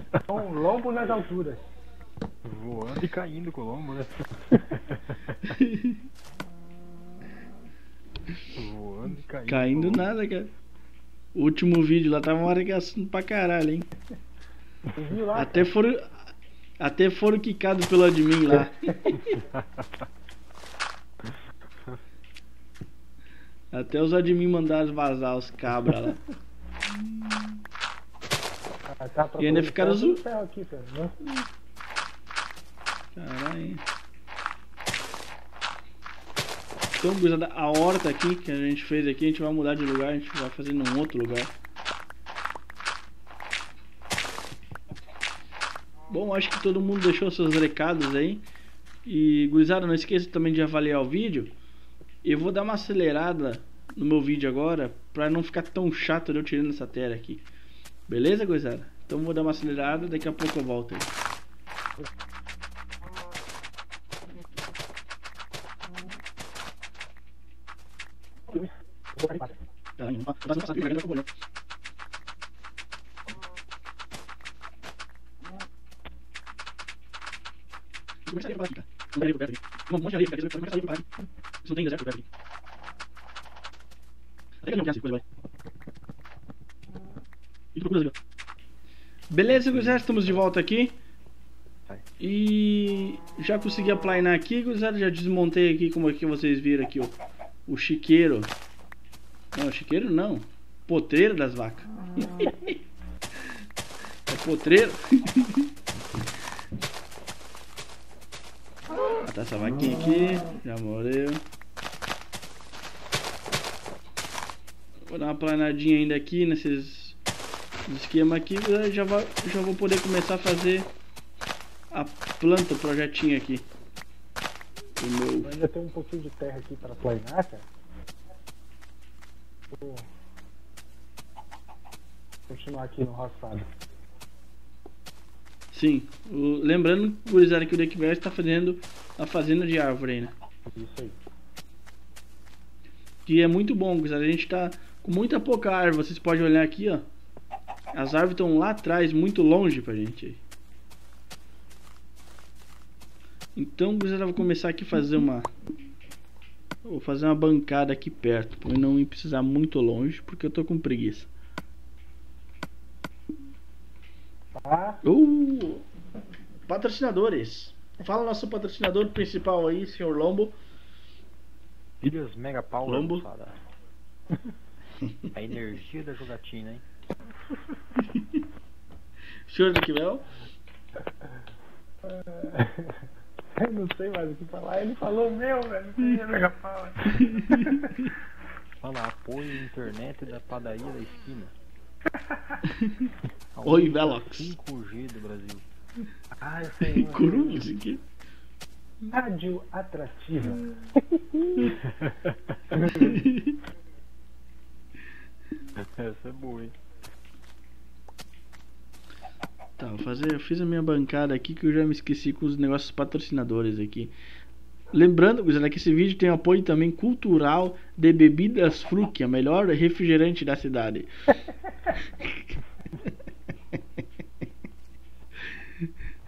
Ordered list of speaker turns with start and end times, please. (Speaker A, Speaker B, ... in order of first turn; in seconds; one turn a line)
Speaker A: 0.2-1.6
Speaker B: 2.4-5.5
Speaker C: 5.5-6.0
Speaker B: 8.5-10.1
Speaker C: 9.5-10.5
Speaker C: 11.3-13.9
Speaker A: 14.9-15.6
Speaker C: 15.3-16.2
Speaker C: 16.8-19.2
Speaker A: 18.8-19.2
Speaker B: 19.3-20.0
Speaker C: 23.7-26.2
Speaker A: 28.9-31.3
Speaker C: 29.4-30.2
Speaker C: 33.1-33.8
Speaker C: 37.0-41.5
Speaker C: 46.1-48.4
Speaker C: 49.0-51.5
Speaker C: 52.2-57.4
Speaker C: 58.1-61.1
Speaker A: 68.5-69.6
Speaker C: 70.0-71.3
Speaker C: 78.2-81.1
Speaker C: 81.6-82.3
Speaker C: 84.6-85.2
Speaker C: 87.7-88.1
Speaker C: 89.3-91.0
Speaker B: 89.7-90.2
Speaker C: 92.2-97.2
Speaker C: 97.7-98.5
Speaker C: 99.5-102.8
Speaker C: 104.3-105.7
Speaker C: 109.2-111.4
Speaker C: 115.1-117.2
Speaker C: 117.9-120.9
Speaker C: 121.9-123.7
Speaker C: 125.0-125.5
Speaker A: 125.4-127.7
Speaker A: 129.7-130.1
Speaker A: 132.5-133.7
Speaker C: 135.7-140.3
Speaker A: 140.7-141.2
Speaker C: 143.2-147.1
Speaker C: 147.9-150.4
Speaker C: 153.6-155.5
Speaker C: 156.8-161.3
Speaker A: 164.6-165.0
Speaker C: 165.0-165.8
Speaker C: 166.7-170.5
Speaker B: 172.0-173.5
Speaker C: 172.8-173.2
Speaker B: 175.3-176.8
Speaker C: 178.0-178.4
Speaker C: 179.5-180.2
Speaker A: 182.0-183.0
Speaker A: 183.6-187.9
Speaker C: 187.1-188.1
Speaker B: 188.8-191.5
Speaker C: 192.8-193.1
Speaker B: 193.5-195.6
Speaker C: 193.6-194.5
Speaker A: 196.4-197.7
Speaker C: 196.8-198.0
Speaker A: 199.0-201.8
Speaker B: 201.8-202.9
Speaker A: 202.7-203.2
Speaker C: 202.9-203.6
Speaker B: 205.8-206.7
Speaker C: 209.8-214.1
Speaker C: 214.9-221.3
Speaker C: 221.9-222.3
Speaker C: 225.4-225.9